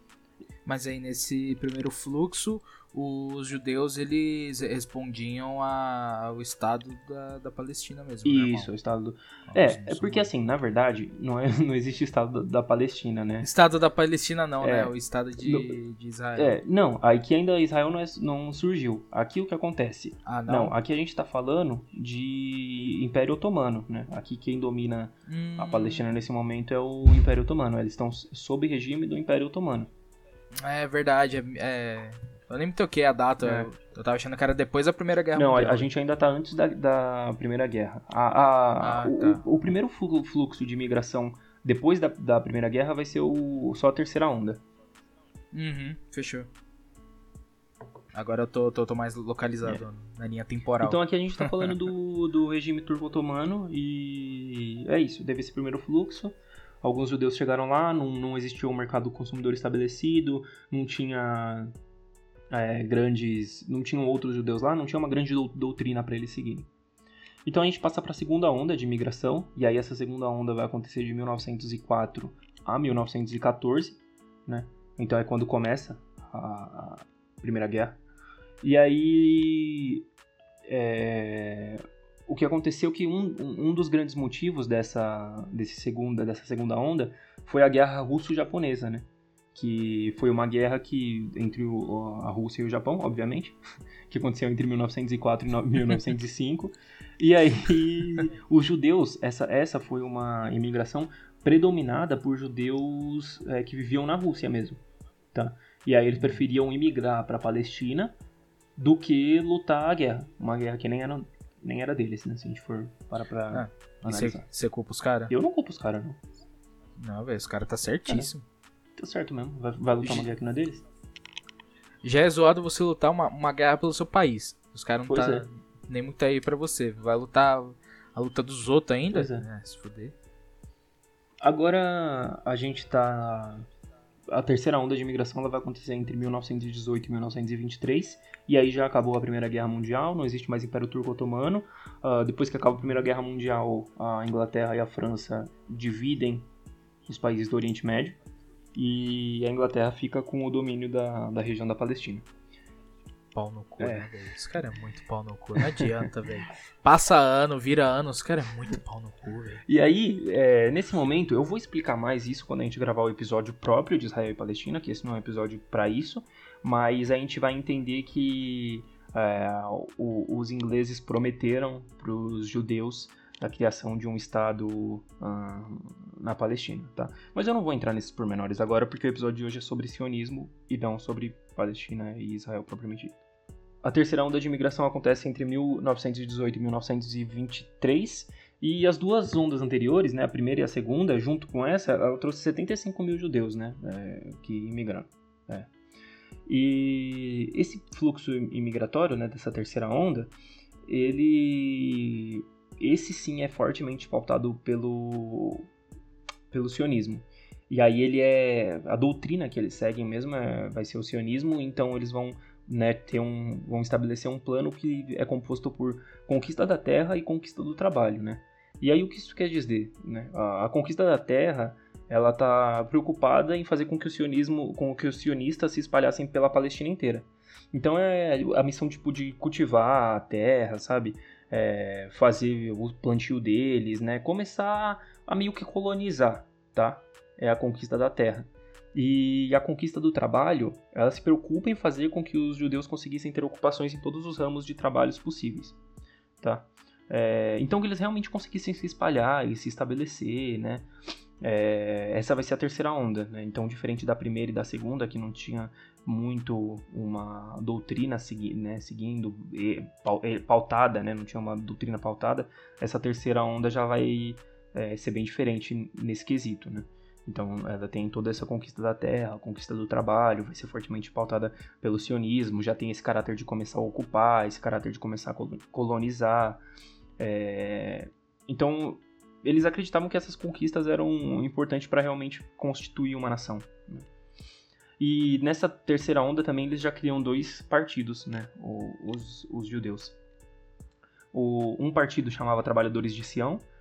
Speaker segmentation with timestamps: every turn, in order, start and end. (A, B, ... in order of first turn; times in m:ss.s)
0:00.6-0:08.7 A
0:08.2-0:13.5 B
0:09.5-0:10.3 A
0:13.4-0:16.6 A
0:14.6-0:15.8 B
0:16.4-0:29.9 B
0:20.3-0:20.7 A
0:25.3-0:26.0 A
0:30.6-0:35.9 A
0:33.4-0:33.7 B
0:35.4-0:44.6 B
0:38.8-0:39.4 A
0:45.5-0:46.5 A
0:48.1-0:51.7 A
0:50.8-1:01.7 B
1:02.5-1:06.7 B
1:07.5-1:18.0 B
1:18.6-1:20.1 B
1:20.7-1:33.6 B
1:34.1-1:44.8 B
1:45.3-1:48.2 B
1:48.8-1:54.5 B
1:53.5-1:55.3 A
1:55.3-1:56.2 B
1:57.0-1:58.4 A
1:59.0-2:00.8 B
2:00.0-2:00.4 A
2:02.0-2:10.2 A
2:05.1-2:05.5 B
2:09.1-2:09.5 B
2:11.4-2:13.7 B
2:14.3-2:26.5 B
2:27.1-2:28.2 B
2:28.8-2:32.2 B
2:33.3-2:39.6 A
2:33.8-2:34.1 B
2:39.7-3:03.2 B
3:03.8-3:15.7 B
3:16.5-3:20.3 B
3:20.9-3:25.7 B
3:26.5-4:05.8 B
4:06.4-4:10.9 B
4:11.4-4:36.6 B
4:37.2-4:44.1 B
4:45.0-4:50.2 B
4:51.3-4:53.6 B